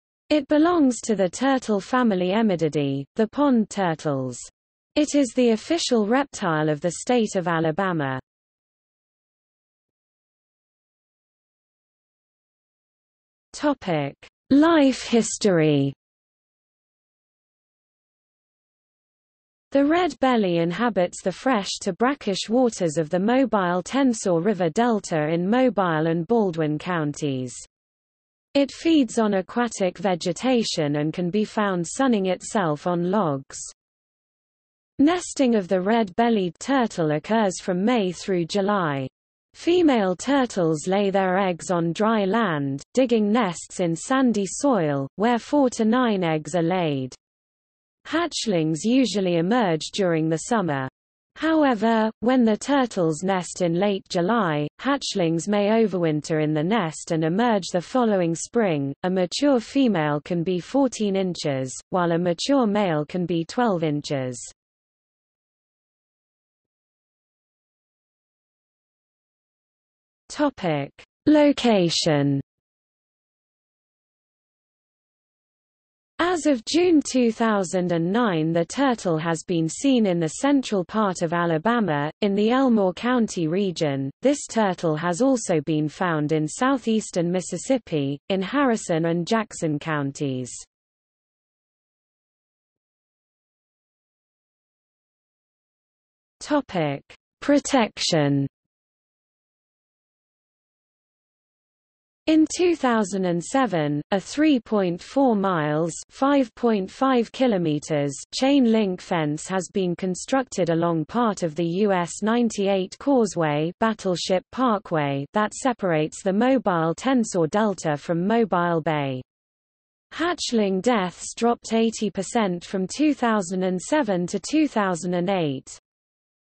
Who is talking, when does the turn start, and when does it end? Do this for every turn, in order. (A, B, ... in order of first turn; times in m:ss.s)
0:00.3-0:08.2 A
0:13.5-0:16.0 A
0:19.7-0:27.7 A
0:28.5-0:33.7 A
0:35.0-0:47.2 A
0:48.0-1:04.5 A
1:10.3-1:12.4 A
1:16.2-1:30.7 A
1:36.4-1:38.5 A
1:42.3-1:59.2 A
2:00.1-2:05.8 A